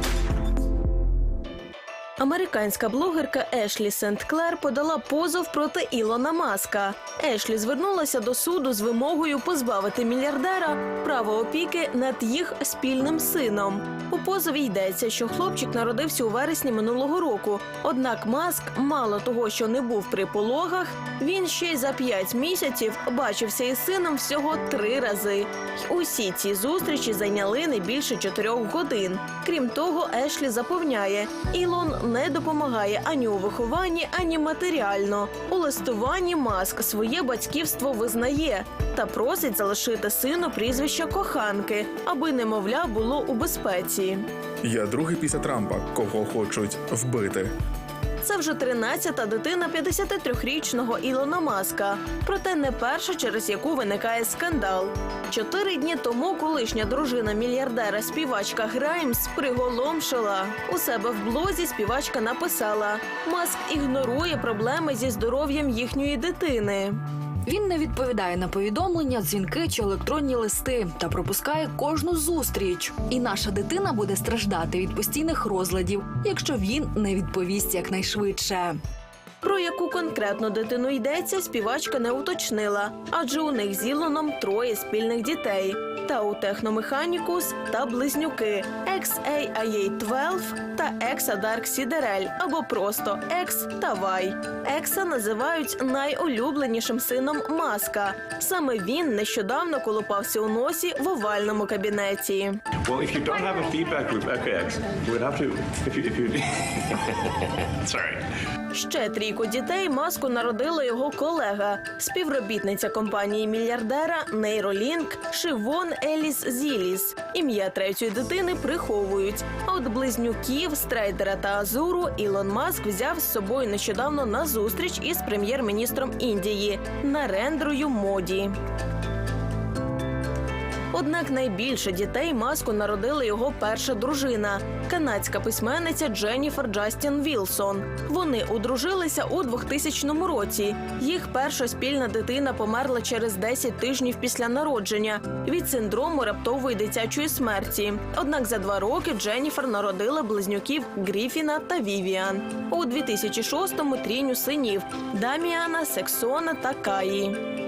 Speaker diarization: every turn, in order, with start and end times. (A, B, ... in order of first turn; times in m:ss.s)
0:02.2-0:44.2 A
0:44.6-0:47.5 B
0:48.2-1:07.0 A
1:07.4-1:18.8 C
1:19.4-1:42.6 A
1:42.9-1:46.4 D
1:47.8-1:48.2 D
1:48.7-2:08.5 A
2:10.9-2:37.4 A